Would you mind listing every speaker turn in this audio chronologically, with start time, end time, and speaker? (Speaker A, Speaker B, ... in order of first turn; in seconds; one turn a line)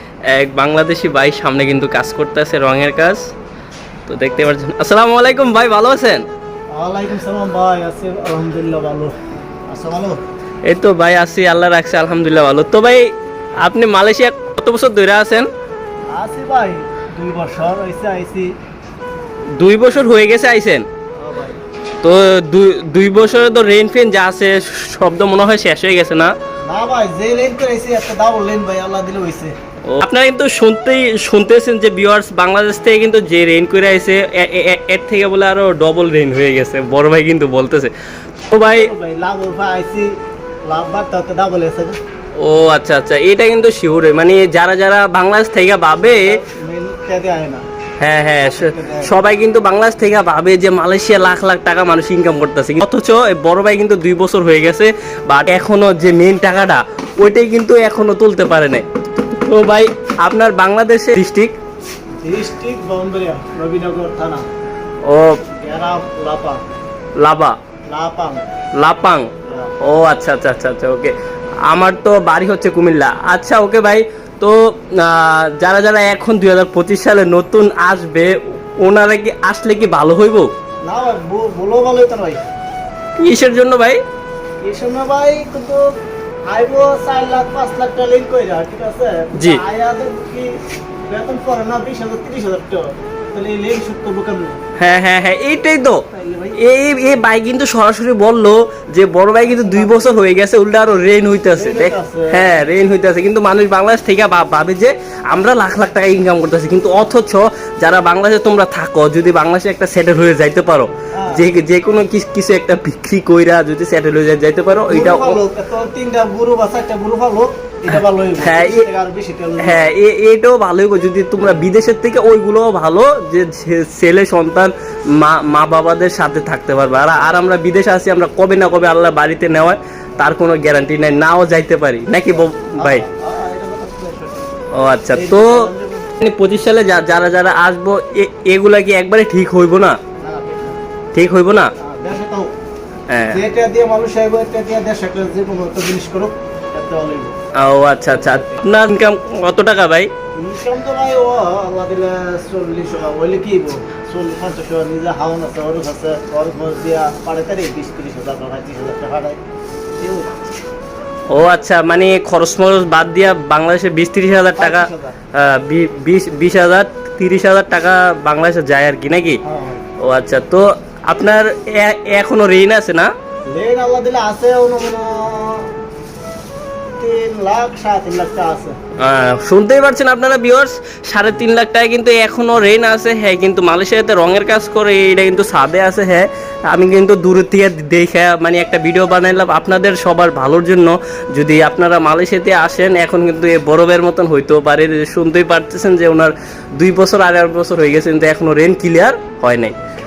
Speaker A: 0.3-3.3
Speaker A: 4.1-6.2
Speaker B: 6.7-9.2
Speaker B: 9.7-10.2
Speaker A: 10.7-15.5
Speaker B: 16.1-18.5
Speaker A: 19.6-20.9
Speaker B: 21.2-21.6
Speaker A: 22.0-26.3
Speaker B: 26.7-29.5
Speaker A: 29.9-37.9
Speaker A: 38.5-38.9
Speaker B: 38.7-40.1
Speaker B: 40.7-42.0
Speaker A: 42.4-46.3
Speaker B: 46.0-47.6
Speaker A: 48.0-58.8
Speaker B: 48.4-49.1
Speaker A: 59.4-61.5
Speaker B: 62.2-64.5
Speaker A: 65.1-65.4
Speaker B: 65.6-66.6
Speaker A: 67.2-67.6
Speaker B: 67.9-68.5
Speaker A: 68.8-69.3
Speaker B: 69.5-69.7
Speaker A: 69.8-71.1
Speaker A: 71.7-80.5
Speaker B: 80.9-82.4
Speaker A: 83.2-84.0
Speaker B: 84.6-85.8
Speaker B: 86.5-90.5
Speaker A: 89.4-89.6
Speaker B: 91.1-94.6
Speaker A: 94.8-96.0
Speaker B: 96.1-96.6
Speaker A: 96.6-115.4
Speaker B: 99.4-100.2
Speaker B: 101.5-102.6
Speaker B: 111.1-111.5
Speaker B: 114.8-119.9
Speaker A: 118.4-118.9
Speaker A: 119.6-133.1
Speaker B: 132.3-134.6
Speaker A: 134.7-135.7
Speaker B: 135.1-136.1
Speaker A: 136.2-140.0
Speaker B: 140.2-140.8
Speaker A: 141.2-141.7
Speaker B: 141.8-142.5
Speaker A: 143.1-143.4
Speaker B: 143.3-147.3
Speaker A: 147.6-150.1
Speaker B: 148.1-148.7
Speaker B: 150.4-159.4
Speaker B: 160.0-160.3
Speaker A: 161.3-169.4
Speaker B: 164.6-165.2
Speaker B: 169.4-169.8
Speaker A: 170.0-173.1
Speaker B: 173.5-175.7
Speaker B: 177.0-178.8
Speaker A: 179.0-199.8